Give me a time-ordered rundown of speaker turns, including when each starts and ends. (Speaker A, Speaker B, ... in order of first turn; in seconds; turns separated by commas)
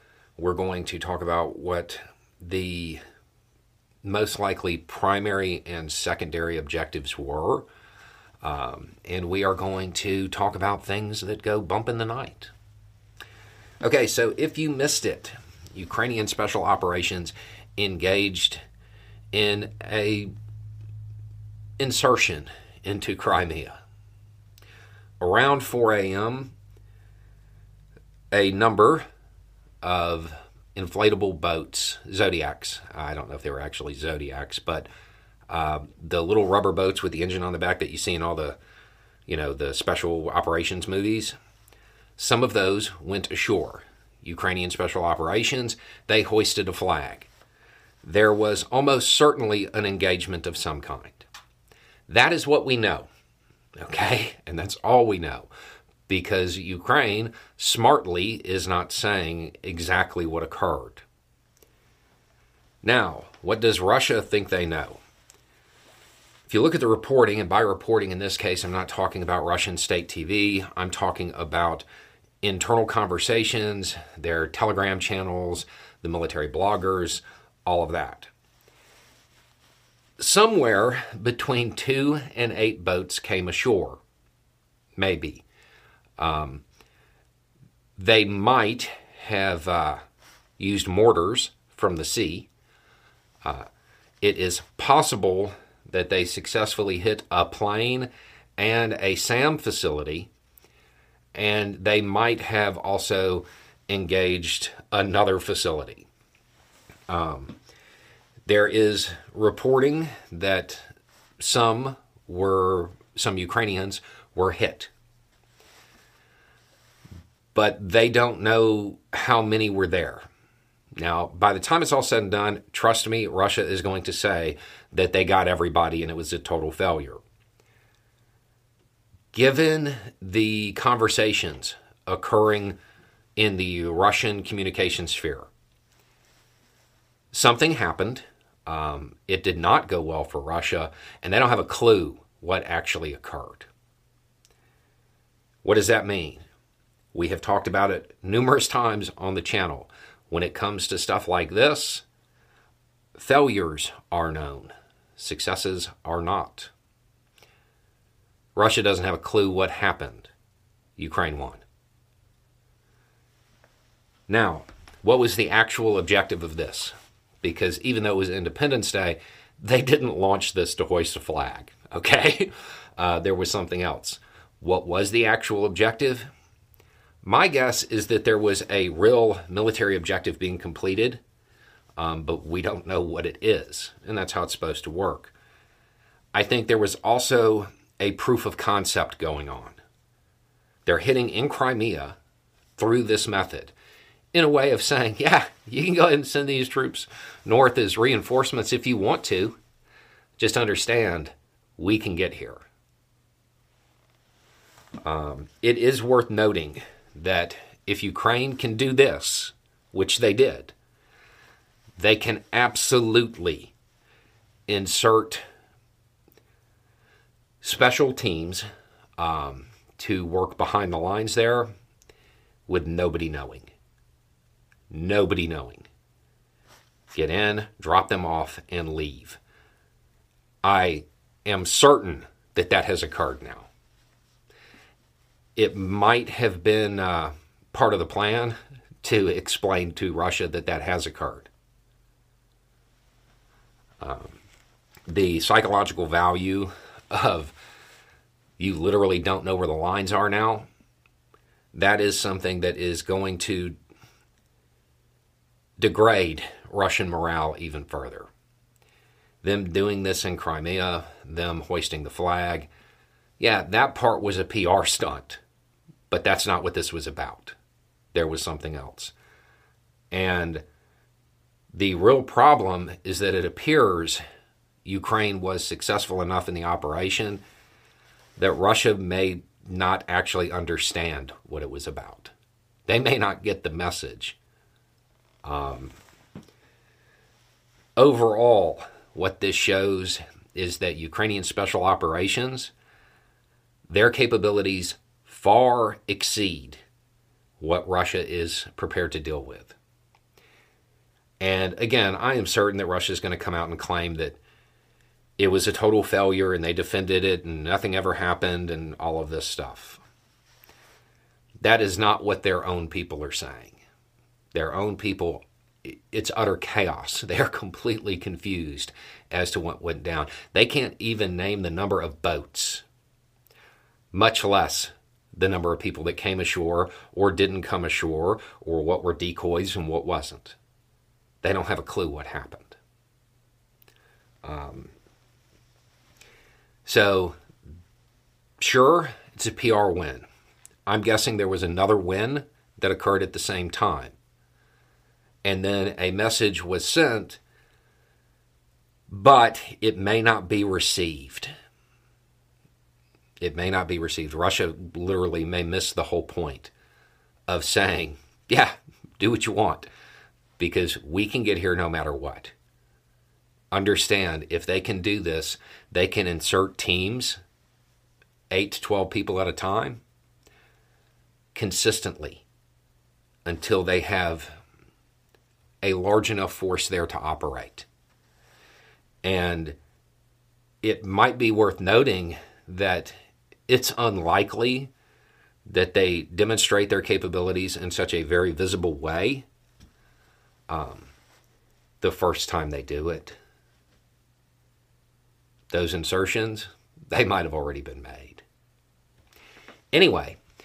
Speaker A: 0.4-3.0, Speaker A: 4.0-7.7, Speaker A: 8.4-12.5, Speaker A: 13.8-18.6, Speaker A: 19.3-20.3, Speaker A: 21.8-23.8, Speaker A: 25.2-26.5, Speaker A: 28.3-29.1, Speaker A: 29.8-34.9, Speaker A: 35.5-38.6, Speaker A: 39.3-41.3, Speaker A: 42.2-47.3, Speaker A: 48.0-51.3, Speaker A: 52.1-53.1, Speaker A: 53.8-55.5, Speaker A: 56.1-61.0, Speaker A: 62.8-65.0, Speaker A: 66.5-71.8, Speaker A: 72.4-78.3, Speaker A: 80.2-84.0, Speaker A: 85.0-85.4, Speaker A: 86.2-86.6, Speaker A: 88.0-90.0, Speaker A: 90.6-92.5, Speaker A: 94.2-100.3, Speaker A: 101.3-106.1, Speaker A: 107.1-107.5, Speaker A: 108.5-110.9, Speaker A: 111.4-114.9, Speaker A: 117.5-120.2, Speaker A: 121.0-127.2, Speaker A: 129.3-132.8, Speaker A: 133.4-135.5, Speaker A: 137.3-143.7, Speaker A: 145.6-146.4, Speaker A: 147.1-152.0, Speaker A: 153.2-156.7, Speaker A: 158.6-160.3, Speaker A: 161.0-161.6, Speaker A: 164.3-176.3, Speaker A: 177.2-181.2, Speaker A: 182.0-185.3, Speaker A: 186.3-189.8, Speaker A: 190.8-192.2, Speaker A: 192.8-193.7, Speaker A: 194.3-199.6, Speaker A: 200.4-202.6, Speaker A: 205.0-210.7, Speaker A: 212.0-213.7, Speaker A: 214.7-215.4, Speaker A: 217.6-218.7, Speaker A: 219.2-221.7, Speaker A: 222.7-223.7, Speaker A: 224.9-225.9, Speaker A: 227.1-229.4, Speaker A: 230.6-233.7, Speaker A: 235.6-241.5, Speaker A: 244.0-244.4, Speaker A: 245.1-247.6, Speaker A: 248.6-250.7, Speaker A: 251.7-253.8, Speaker A: 255.8-258.3, Speaker A: 259.4-262.7, Speaker A: 263.4-265.4, Speaker A: 266.1-267.6, Speaker A: 268.1-269.1, Speaker A: 270.1-270.6, Speaker A: 271.7-274.2, Speaker A: 274.8-277.4, Speaker A: 278.4-282.3, Speaker A: 282.9-284.4, Speaker A: 285.4-285.9, Speaker A: 288.0-292.7, Speaker A: 293.9-296.8, Speaker A: 297.6-299.8, Speaker A: 301.4-304.4, Speaker A: 305.4-310.0, Speaker A: 311.6-313.8, Speaker A: 314.5-322.8, Speaker A: 324.1-330.6, Speaker A: 331.4-332.8, Speaker A: 334.4-334.9, Speaker A: 336.8-337.4, Speaker A: 338.6-340.3, Speaker A: 340.9-344.1, Speaker A: 345.4-347.4, Speaker A: 349.1-351.5, Speaker A: 353.4-356.7, Speaker A: 357.5-359.9, Speaker A: 360.6-362.5, Speaker A: 363.7-367.4, Speaker A: 368.5-370.0, Speaker A: 371.5-372.4, Speaker A: 373.4-374.5, Speaker A: 375.8-377.9, Speaker A: 379.2-379.8, Speaker A: 380.8-383.1, Speaker A: 383.7-384.9, Speaker A: 385.7-389.4, Speaker A: 390.7-391.1, Speaker A: 392.0-393.4, Speaker A: 395.7-398.4, Speaker A: 399.9-400.4